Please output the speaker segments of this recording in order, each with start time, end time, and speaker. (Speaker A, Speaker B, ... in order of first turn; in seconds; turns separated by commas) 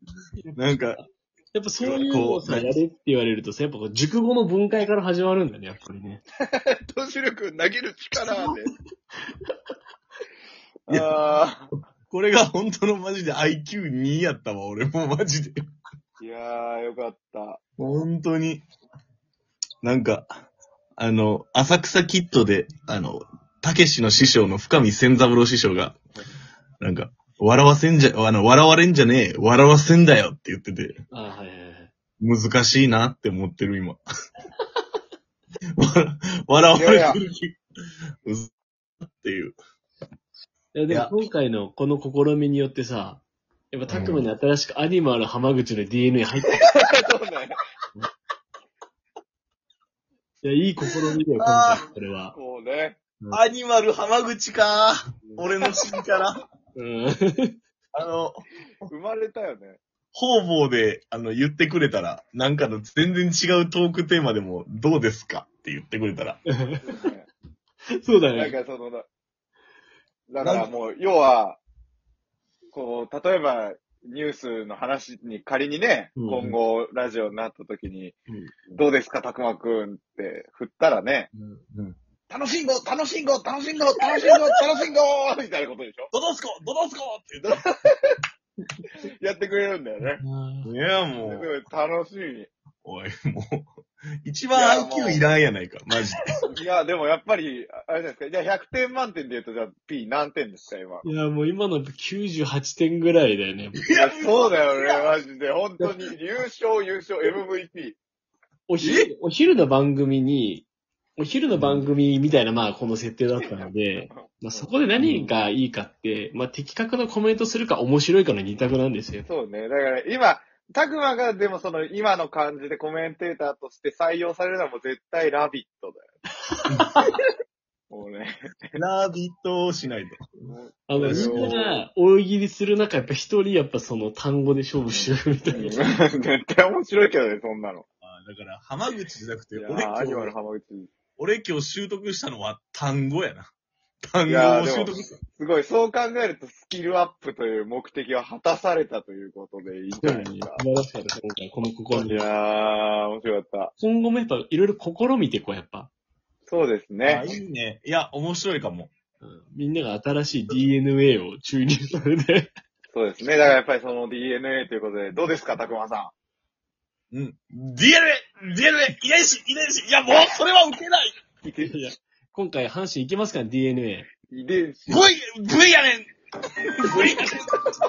Speaker A: 0.6-1.0, Speaker B: 1.5-6.2, Speaker A: 1.8-2.7, Speaker C: 6.5-8.7, Speaker C: 10.9-11.7, Speaker A: 12.1-15.6, Speaker C: 16.2-17.6, Speaker A: 17.8-18.6, Speaker A: 19.8-20.3, Speaker A: 21.0-26.0, Speaker A: 26.8-31.0, Speaker B: 31.1-31.9, Speaker A: 32.2-34.0, Speaker A: 35.8-37.6, Speaker C: 36.8-37.2, Speaker A: 38.2-38.5, Speaker A: 39.1-39.6, Speaker B: 40.7-46.7, Speaker A: 43.9-44.2, Speaker C: 46.6-47.6, Speaker B: 50.4-52.4, Speaker A: 51.4-51.9, Speaker C: 52.3-53.0, Speaker A: 53.3-56.4, Speaker B: 56.8-57.6, Speaker A: 57.9-58.9, Speaker C: 58.9-59.8, Speaker A: 60.1-66.4, Speaker B: 66.5-66.8, Speaker C: 66.8-67.3, Speaker B: 67.9-68.6, Speaker C: 68.3-69.0, Speaker C: 70.3-71.6, Speaker A: 70.4-70.7, Speaker C: 72.7-78.2, Speaker B: 76.2-76.6, Speaker C: 78.7-81.3, Speaker B: 81.3-81.6, Speaker C: 82.3-86.1, Speaker A: 86.1-87.6, Speaker C: 87.5-88.2, Speaker C: 89.2-90.2, Speaker B: 90.2-90.7, Speaker A: 90.7-91.5, Speaker C: 91.2-92.5, Speaker A: 92.8-93.7, Speaker A: 94.2-96.3, Speaker C: 94.5-95.2, Speaker C: 96.5-101.0, Speaker B: 101.0-103.9, Speaker A: 103.8-105.1, Speaker C: 103.9-108.0, Speaker B: 108.7-119.3, Speaker A: 108.8-109.1, Speaker C: 113.4-114.7, Speaker A: 115.0-115.3, Speaker C: 119.3-126.1, Speaker A: 126.7-127.2, Speaker B: 126.8-127.1, Speaker C: 127.9-128.4, Speaker A: 128.8-130.3, Speaker C: 130.5-131.8, Speaker B: 130.9-135.8, Speaker A: 131.0-131.6, Speaker C: 134.9-137.8, Speaker A: 138.0-140.3, Speaker C: 139.6-140.9, Speaker A: 141.2-143.5, Speaker A: 144.0-145.2, Speaker C: 144.2-150.6, Speaker B: 149.9-152.2, Speaker C: 151.9-153.7, Speaker B: 153.8-155.9, Speaker C: 156.5-157.3, Speaker A: 157.0-158.9, Speaker B: 159.2-162.5, Speaker C: 162.9-166.1, Speaker A: 167.1-171.2, Speaker C: 171.4-171.8, Speaker B: 171.6-174.1, Speaker C: 174.3-175.0, Speaker A: 174.9-176.1, Speaker A: 176.6-177.5